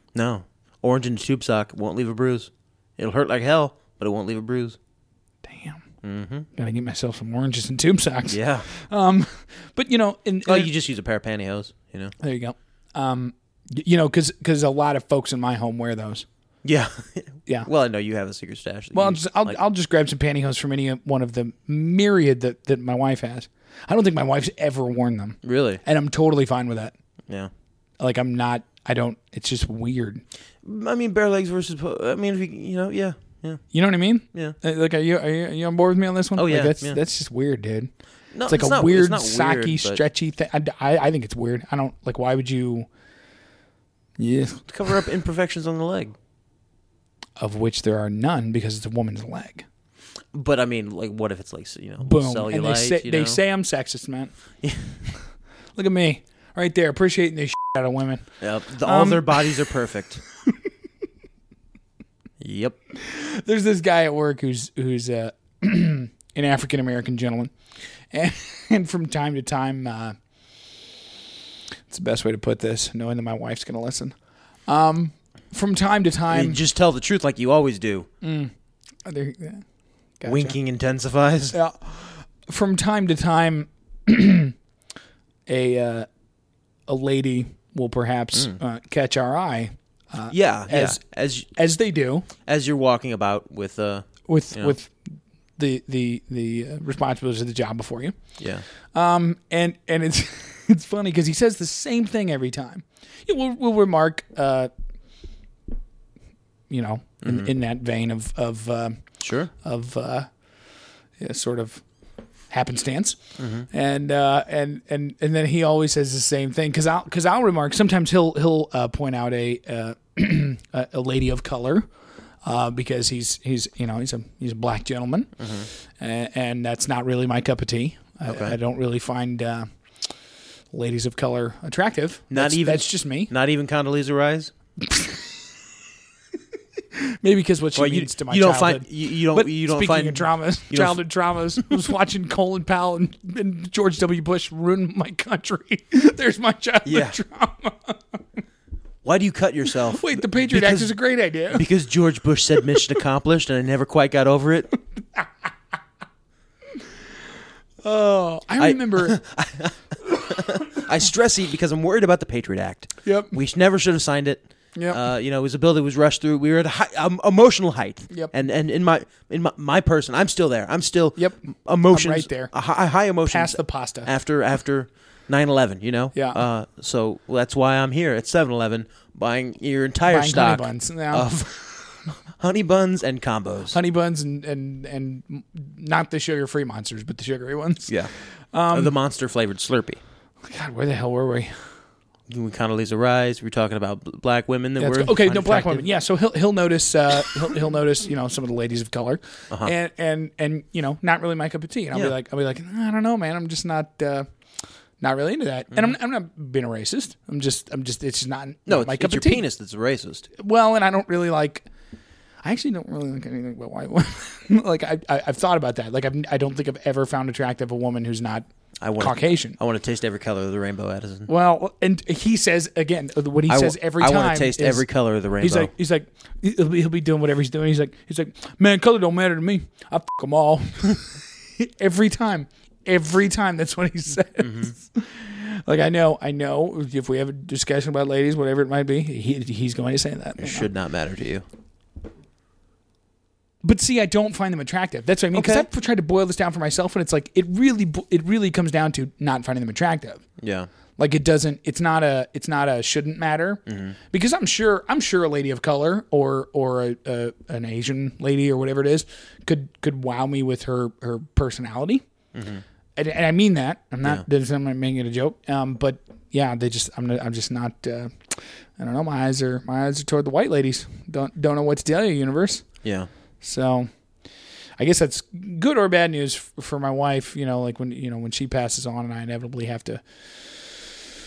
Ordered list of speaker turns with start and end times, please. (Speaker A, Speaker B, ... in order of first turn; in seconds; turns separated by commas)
Speaker A: 0.1-4.8, Speaker B: 5.5-5.8, Speaker A: 6.0-6.5, Speaker B: 6.5-10.7, Speaker A: 8.3-8.7, Speaker A: 10.4-12.2, Speaker B: 12.2-16.3, Speaker A: 16.6-19.6, Speaker B: 18.9-26.9, Speaker A: 25.4-25.8, Speaker B: 28.0-30.2, Speaker A: 30.6-33.6, Speaker B: 33.7-37.9, Speaker A: 36.4-37.0, Speaker A: 38.3-40.0, Speaker B: 38.5-42.9, Speaker B: 44.2-44.7, Speaker A: 44.7-46.2, Speaker B: 47.4-49.7, Speaker A: 50.3-53.4, Speaker B: 52.0-54.3, Speaker A: 54.6-55.0, Speaker B: 55.8-59.7, Speaker A: 58.4-60.2, Speaker A: 62.4-62.8, Speaker B: 63.0-67.5, Speaker B: 68.1-70.2, Speaker B: 71.9-74.2, Speaker B: 74.7-76.6, Speaker A: 76.3-78.1, Speaker B: 78.2-78.5, Speaker B: 79.0-79.6, Speaker B: 80.2-80.6, Speaker A: 80.3-81.6, Speaker B: 81.5-84.5, Speaker B: 85.5-86.1, Speaker B: 86.9-91.0, Speaker A: 90.3-91.5, Speaker B: 91.5-92.3, Speaker A: 92.5-94.8, Speaker B: 94.3-98.2, Speaker A: 98.4-98.7, Speaker B: 98.9-104.7, Speaker B: 106.7-109.1, Speaker A: 107.2-107.5, Speaker A: 109.2-109.5, Speaker B: 109.6-110.3, Speaker B: 111.2-111.8, Speaker B: 112.5-113.2, Speaker A: 113.4-113.7, Speaker B: 113.7-121.9, Speaker B: 122.4-130.1, Speaker A: 125.4-125.7, Speaker A: 128.2-128.6, Speaker B: 130.7-133.3, Speaker A: 132.3-134.5, Speaker B: 134.8-135.4, Speaker B: 137.0-148.2, Speaker A: 137.8-141.0, Speaker A: 146.8-147.2, Speaker A: 149.0-151.0, Speaker B: 149.9-151.7, Speaker A: 151.5-154.7, Speaker B: 157.8-159.2, Speaker A: 158.6-183.8, Speaker B: 163.0-163.3, Speaker B: 164.8-165.0, Speaker B: 171.2-172.5, Speaker B: 173.3-174.1, Speaker B: 176.1-176.4, Speaker B: 180.1-181.3, Speaker B: 183.7-188.9, Speaker A: 187.9-188.1, Speaker A: 188.7-190.0, Speaker B: 190.4-191.7, Speaker A: 192.3-195.9, Speaker B: 194.8-204.3, Speaker B: 205.0-209.4, Speaker A: 208.7-210.3, Speaker B: 210.3-211.7, Speaker B: 212.4-218.4, Speaker A: 218.8-221.3, Speaker B: 219.0-219.6, Speaker B: 221.3-224.9, Speaker A: 223.5-225.7, Speaker B: 225.4-240.7, Speaker A: 234.4-234.7, Speaker A: 240.4-241.4, Speaker B: 243.6-250.2, Speaker A: 245.3-245.7, Speaker A: 250.4-250.7, Speaker B: 251.0-262.1, Speaker A: 253.7-254.0, Speaker A: 262.3-262.6, Speaker B: 263.0-272.7, Speaker A: 272.8-273.1, Speaker B: 273.4-273.9, Speaker B: 274.8-280.9